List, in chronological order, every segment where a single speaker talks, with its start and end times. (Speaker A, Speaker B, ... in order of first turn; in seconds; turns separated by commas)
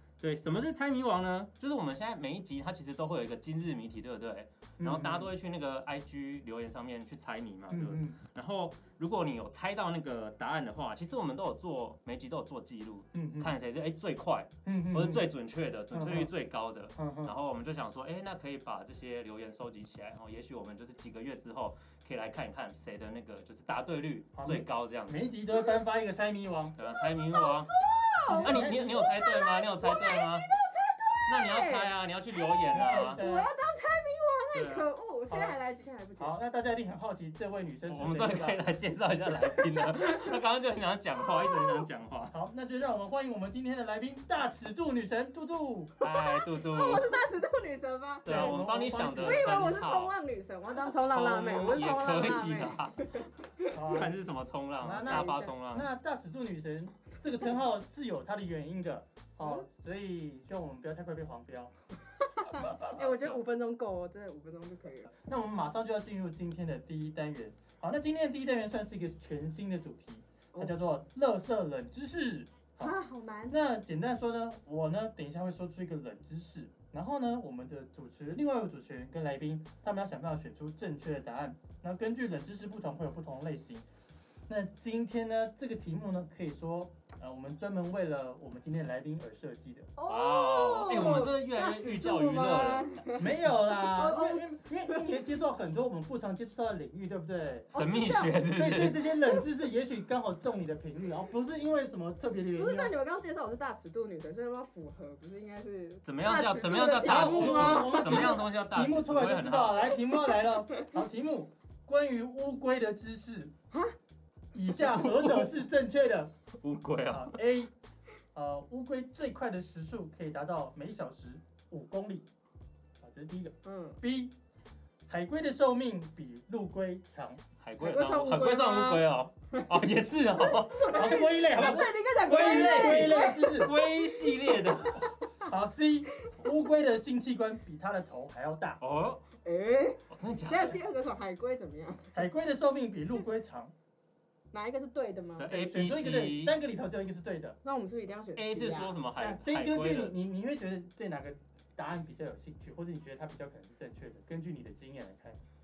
Speaker A: 0.2-25.3, Speaker B: 4.8-5.3, Speaker B: 7.7-8.2, Speaker B: 13.1-13.5, Speaker B: 14.7-15.3, Speaker B: 15.9-16.3, Speaker B: 17.0-17.4, Speaker B: 24.4-26.8, Speaker A: 26.8-27.7, Speaker C: 26.9-36.4, Speaker B: 28.3-28.9, Speaker A: 28.4-30.5, Speaker A: 31.3-33.2, Speaker B: 32.7-33.5, Speaker A: 34.5-34.9, Speaker B: 35.3-35.6, Speaker B: 36.2-38.6, Speaker A: 37.9-42.3, Speaker C: 39.6-40.1, Speaker C: 41.3-41.8, Speaker B: 42.3-45.9, Speaker A: 46.0-47.2, Speaker C: 46.0-53.8, Speaker A: 48.2-50.1, Speaker B: 48.3-49.7, Speaker A: 50.7-53.0, Speaker B: 53.7-54.2, Speaker A: 53.9-55.9, Speaker B: 54.8-61.7, Speaker C: 55.0-55.5, Speaker C: 62.2-65.1, Speaker A: 62.9-63.4, Speaker B: 65.3-73.0, Speaker C: 72.8-73.5, Speaker B: 73.5-83.8, Speaker B: 84.5-89.9, Speaker C: 90.0-93.3, Speaker A: 90.1-93.3, Speaker B: 93.1-97.8, Speaker C: 93.8-95.1, Speaker A: 97.7-99.1, Speaker C: 97.7-98.3, Speaker B: 98.5-102.9, Speaker C: 102.5-108.4, Speaker A: 106.0-110.0, Speaker B: 107.0-113.5, Speaker B: 114.5-116.3, Speaker A: 116.6-117.4, Speaker B: 117.1-117.7, Speaker B: 118.3-122.3, Speaker B: 123.0-124.3, Speaker C: 123.6-124.0, Speaker B: 125.1-127.4, Speaker A: 127.6-135.1, Speaker C: 127.8-129.7, Speaker C: 130.4-135.0, Speaker B: 130.9-133.7, Speaker B: 135.4-138.8, Speaker A: 138.8-139.2, Speaker C: 139.4-142.2, Speaker A: 140.1-140.8, Speaker B: 142.1-143.7, Speaker C: 144.5-145.5, Speaker A: 145.4-146.6, Speaker B: 145.5-147.6, Speaker C: 147.6-149.0, Speaker A: 148.4-150.2, Speaker B: 149.2-155.4